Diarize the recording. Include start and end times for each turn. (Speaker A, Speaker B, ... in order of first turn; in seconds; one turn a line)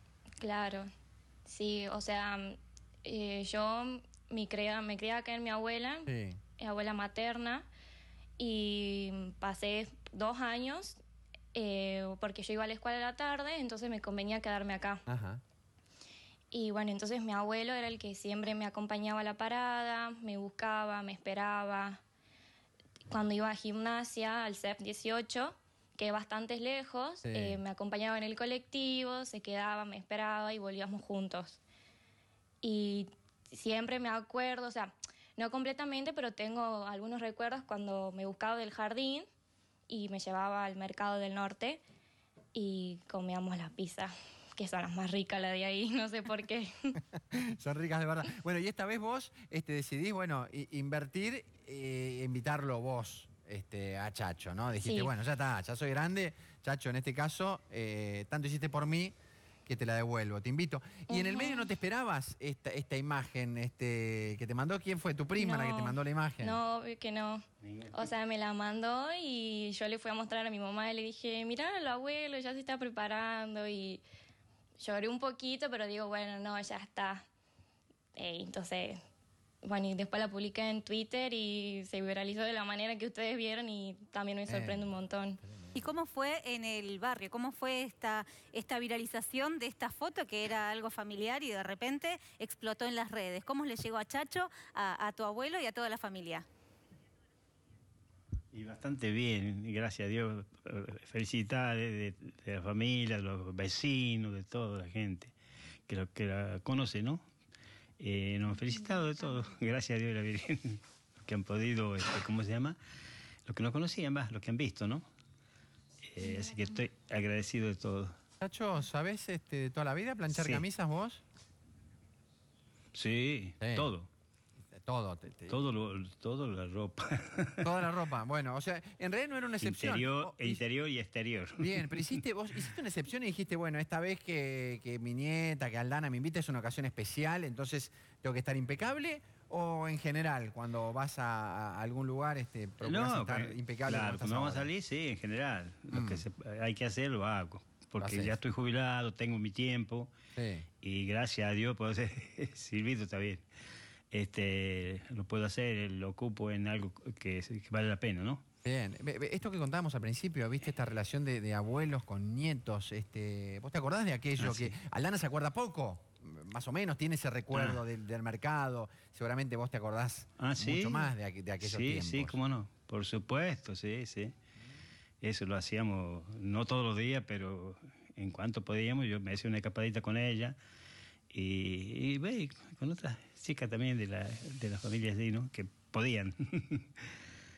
Speaker A: 0.4-0.8
Speaker A: 1.4-7.7
Speaker B: 6.1-6.4
Speaker A: 8.4-11.0
Speaker A: 11.5-15.0
Speaker B: 15.1-15.4
Speaker A: 16.5-22.0
Speaker A: 23.1-31.6
Speaker B: 27.2-27.6
Speaker A: 32.6-39.2
Speaker A: 39.9-41.8
Speaker A: 42.5-46.7
Speaker B: 47.3-59.1
Speaker A: 54.8-55.1
Speaker B: 59.6-66.6
Speaker A: 61.1-61.7
Speaker A: 65.4-74.0
Speaker C: 67.6-68.0
Speaker A: 74.8-77.2
Speaker A: 78.2-79.0
Speaker A: 79.6-85.4
Speaker B: 84.5-84.8
Speaker B: 85.5-85.8
Speaker D: 85.7-96.5
Speaker C: 98.5-105.3
Speaker C: 105.9-107.2
Speaker C: 108.0-112.8
Speaker C: 113.5-115.0
Speaker C: 116.0-118.1
Speaker B: 118.4-121.2
Speaker C: 120.3-120.6
Speaker C: 122.9-124.1
Speaker B: 123.6-123.9
Speaker B: 124.8-125.6
Speaker C: 125.5-127.7
Speaker B: 127.6-130.6
Speaker C: 129.6-132.7
Speaker B: 131.6-144.7
Speaker C: 142.8-150.1
Speaker B: 145.9-146.2
Speaker B: 148.0-148.3
Speaker B: 150.3-150.7
Speaker C: 150.8-153.4
Speaker C: 154.1-158.4
Speaker B: 158.6-172.4
Speaker C: 164.4-164.8
Speaker C: 167.5-167.8
Speaker C: 170.4-174.3
Speaker C: 175.2-180.6
Speaker C: 181.3-187.1